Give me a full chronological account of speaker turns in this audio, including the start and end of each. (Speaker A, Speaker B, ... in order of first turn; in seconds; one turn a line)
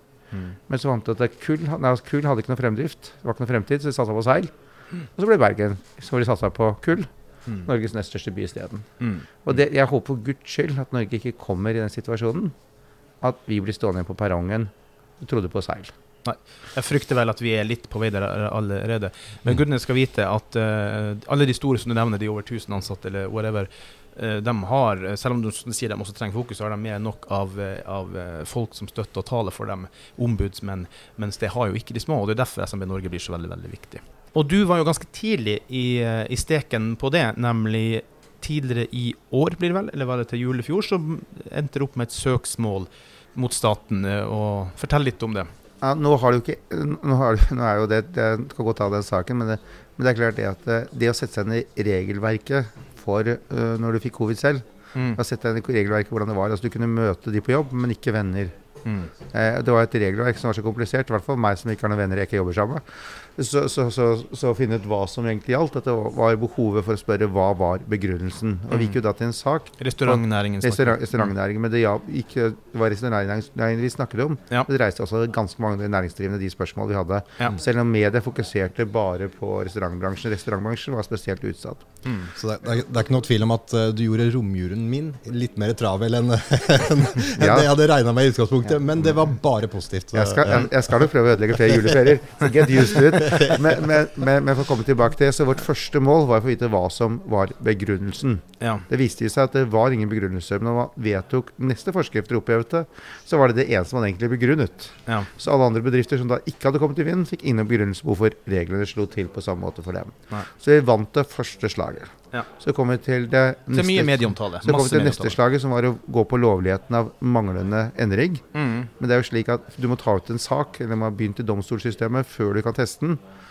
Speaker A: 0.7-4.5
Speaker A: 5.1-7.1
Speaker A: 7.6-8.9
Speaker B: 9.0-9.2
Speaker A: 9.4-12.5
Speaker A: 13.2-15.9
Speaker B: 16.2-45.5
Speaker A: 45.8-58.5
Speaker B: 58.8-59.1
Speaker A: 59.3-81.8
Speaker B: 68.7-69.0
Speaker B: 69.8-71.3
Speaker B: 82.0-82.3
Speaker C: 82.3-90.7
Speaker A: 87.3-87.7
Speaker A: 90.1-118.4
Speaker C: 93.2-93.5
Speaker B: 113.7-115.4
Speaker B: 118.5-118.9
Speaker A: 119.0-123.2